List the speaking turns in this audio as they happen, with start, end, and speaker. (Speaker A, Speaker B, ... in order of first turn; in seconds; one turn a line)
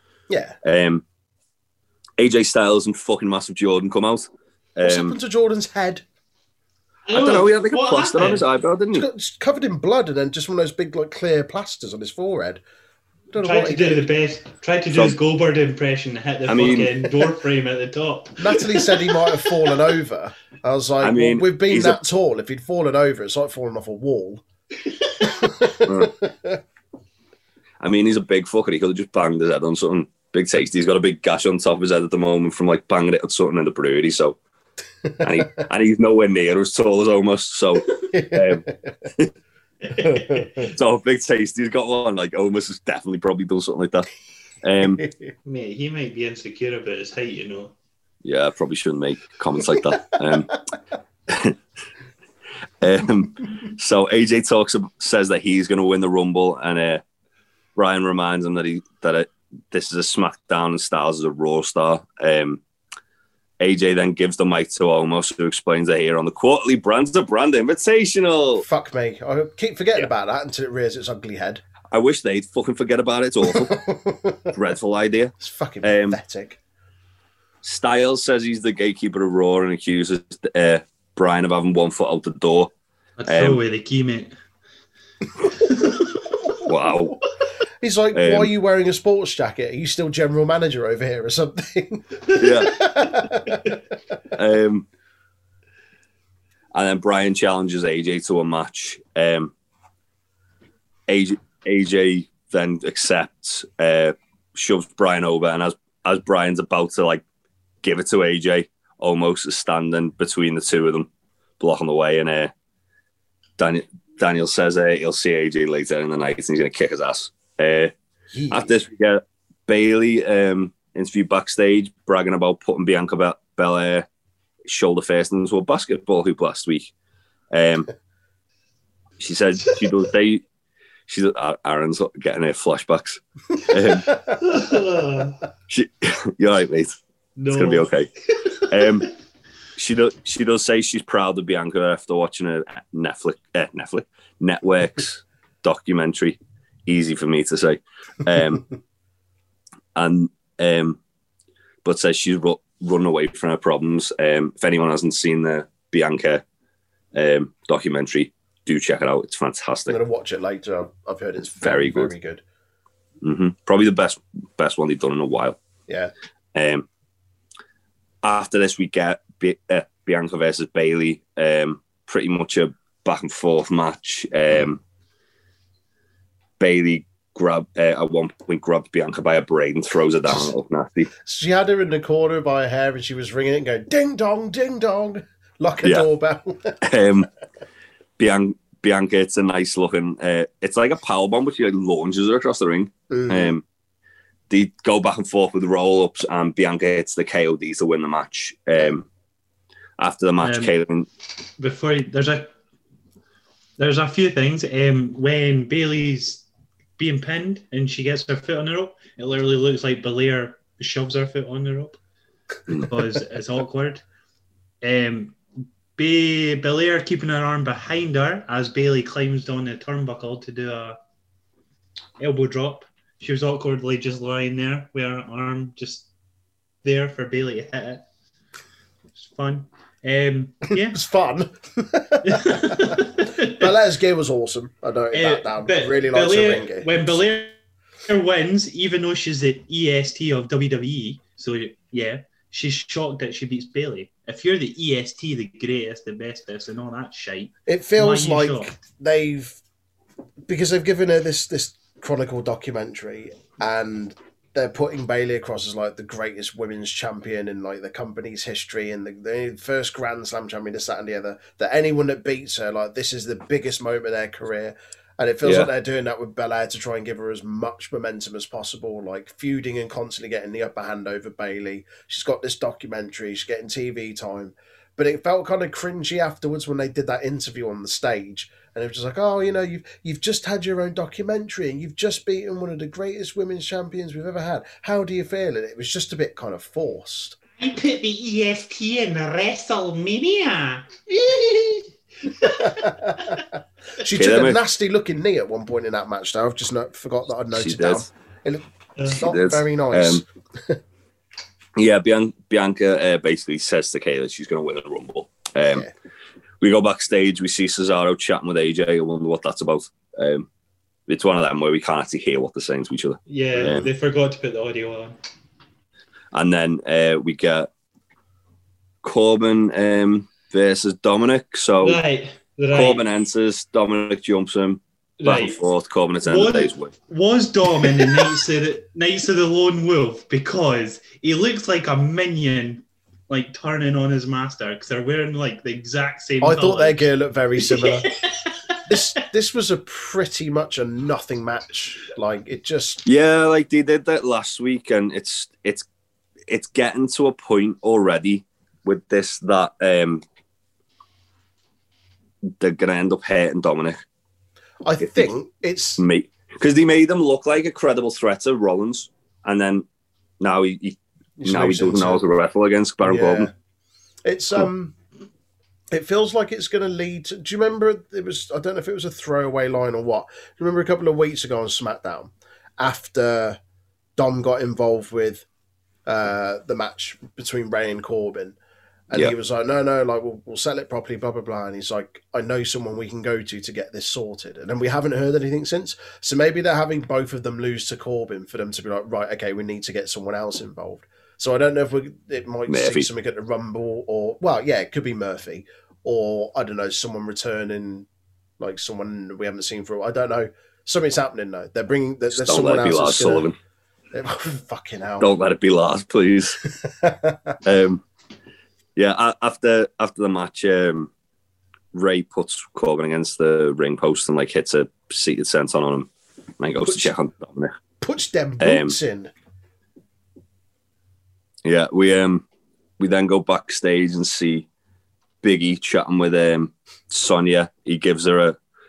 Speaker A: 0.3-0.6
Speaker B: 0.6-1.0
Speaker B: 2.2-5.2
Speaker A: 4.8-6.0
Speaker C: 7.1-8.5
Speaker B: 7.1-9.1
Speaker A: 8.9-12.6
Speaker A: 13.3-14.1
Speaker C: 13.4-19.7
Speaker B: 14.9-15.2
Speaker B: 16.5-17.0
Speaker A: 18.4-24.4
Speaker B: 21.0-22.0
Speaker A: 25.2-26.6
Speaker B: 25.8-26.1
Speaker B: 27.8-34.4
Speaker A: 35.1-35.6
Speaker B: 35.2-39.3
Speaker A: 38.1-38.9
Speaker A: 40.0-40.7
Speaker B: 40.6-44.1
Speaker B: 44.6-45.0
Speaker A: 45.0-45.3
Speaker C: 45.5-47.7
Speaker B: 48.2-50.5
Speaker B: 51.3-51.6
Speaker B: 52.8-57.0
Speaker B: 57.8-62.6
Speaker B: 63.6-68.7
Speaker A: 68.6-71.6
Speaker B: 71.9-73.8
Speaker A: 73.5-74.5
Speaker B: 74.5-76.2
Speaker A: 75.4-76.6
Speaker B: 77.6-82.7
Speaker C: 83.2-84.3
Speaker B: 83.3-83.6
Speaker C: 85.5-86.2
Speaker B: 86.7-87.2
Speaker A: 87.8-93.8
Speaker B: 88.1-88.5
Speaker B: 92.4-92.8
Speaker B: 94.3-94.9
Speaker B: 96.7-99.5
Speaker B: 101.1-107.2
Speaker B: 107.8-111.1
Speaker B: 111.6-112.5
Speaker B: 113.6-117.9
Speaker A: 118.3-118.8
Speaker B: 118.5-124.1
Speaker B: 124.7-126.9
Speaker B: 127.5-127.9
Speaker B: 129.2-130.4
Speaker B: 131.1-134.1
Speaker C: 134.3-135.4
Speaker B: 135.7-137.0
Speaker C: 137.4-139.1
Speaker B: 137.5-138.1
Speaker B: 138.6-139.1
Speaker B: 139.8-148.7
Speaker B: 149.9-151.0
Speaker B: 151.8-156.4
Speaker B: 157.1-160.0
Speaker A: 159.9-162.4
Speaker B: 161.6-162.1
Speaker B: 163.2-165.6
Speaker B: 166.5-166.9
Speaker B: 168.2-174.8
Speaker B: 176.6-181.1
Speaker A: 181.2-186.8
Speaker B: 186.8-187.3
Speaker B: 188.2-193.6
Speaker A: 193.1-193.6
Speaker B: 194.5-199.1
Speaker B: 200.0-201.1
Speaker C: 200.4-200.7
Speaker C: 201.6-202.5
Speaker C: 203.8-206.4
Speaker C: 207.0-212.0
Speaker C: 212.7-214.0
Speaker C: 214.8-215.4
Speaker C: 216.0-221.0
Speaker C: 222.2-226.1
Speaker C: 226.8-228.0
Speaker C: 229.2-231.0
Speaker A: 230.8-237.2
Speaker C: 232.2-233.7
Speaker C: 235.1-248.7
Speaker A: 247.7-249.6
Speaker A: 250.5-287.4
Speaker B: 265.4-265.7
Speaker C: 287.6-290.9
Speaker A: 291.1-291.9
Speaker A: 292.4-300.8
Speaker C: 292.4-292.9
Speaker B: 294.1-294.6
Speaker B: 297.5-298.1
Speaker B: 299.2-300.2
Speaker B: 301.8-305.9
Speaker B: 306.6-310.5
Speaker B: 311.1-313.9
Speaker C: 313.3-315.2
Speaker B: 316.3-317.7
Speaker B: 319.0-322.0
Speaker C: 321.8-323.0
Speaker B: 322.7-326.9
Speaker C: 325.2-325.6
Speaker C: 326.2-339.0
Speaker A: 336.4-338.1
Speaker A: 338.9-343.0
Speaker B: 343.1-345.9
Speaker B: 346.5-350.2
Speaker B: 352.5-354.0
Speaker A: 354.8-356.1
Speaker B: 355.0-355.3
Speaker B: 356.0-359.9
Speaker B: 360.4-363.5
Speaker A: 361.4-362.2
Speaker A: 363.0-363.5
Speaker A: 364.2-364.9
Speaker A: 365.9-373.6
Speaker A: 374.2-375.5
Speaker A: 376.1-378.6
Speaker A: 379.1-398.1
Speaker B: 392.7-393.1
Speaker A: 398.6-403.5
Speaker B: 402.3-403.6
Speaker A: 404.1-405.3
Speaker B: 405.2-406.6
Speaker A: 406.8-407.6
Speaker B: 407.6-408.0
Speaker B: 409.0-411.1
Speaker B: 411.9-417.8
Speaker A: 418.0-419.3
Speaker B: 418.6-419.0
Speaker B: 421.6-422.4
Speaker B: 423.0-424.7
Speaker B: 425.4-428.6